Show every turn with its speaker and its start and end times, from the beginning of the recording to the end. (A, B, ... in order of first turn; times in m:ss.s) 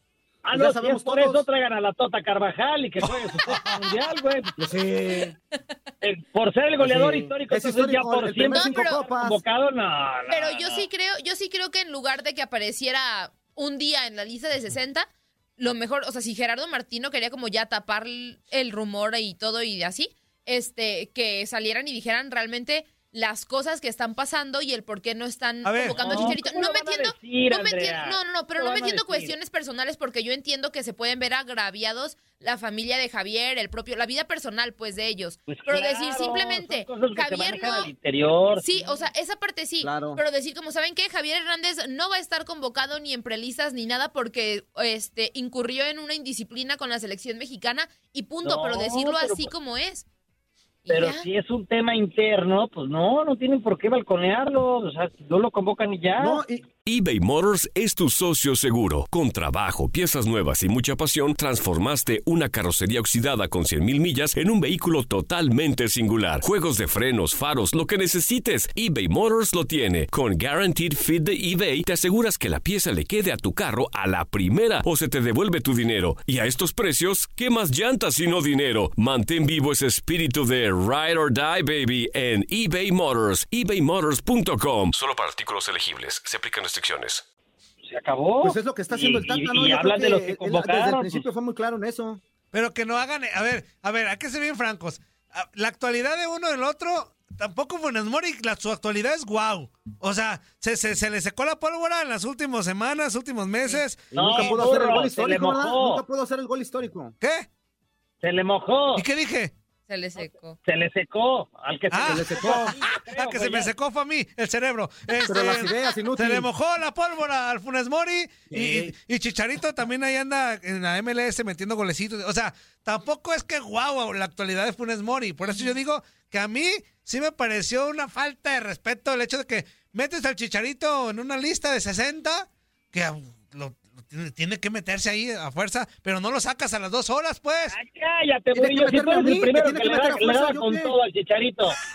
0:00.4-0:04.5 A
0:00.5-0:01.4 B
0:03.0-0:03.8 C
0:04.6-0:05.3 B
0:06.0-0:10.8 A
0:06.8-0:09.4 B
0:08.5-0:09.0 D
0:10.3-0:37.9 D
0:25.6-0:26.3 C
0:26.0-0:29.3 A
0:35.5-0:39.1 A
0:38.6-0:50.0 D
0:39.8-0:40.2 B
0:48.4-0:49.5 A
0:50.8-0:51.3 D
0:50.9-0:56.4 A
0:56.2-0:56.6 B
0:56.8-1:27.2 E
1:27.9-1:31.2 A
1:28.4-1:32.2 B
1:32.5-1:44.6 C
1:44.1-1:47.2 B
1:44.1-1:46.0 A
1:47.2-1:47.4 C
1:48.2-1:49.0 A
1:48.9-1:49.5 C
1:49.9-1:50.6 D
1:50.6-1:53.7 A
1:51.9-2:17.8 C
1:52.0-1:52.7 B
1:55.2-1:56.5 B
1:58.5-1:58.9 B
2:05.5-2:05.7 D
2:17.7-2:21.8 A
2:18.5-2:20.9 B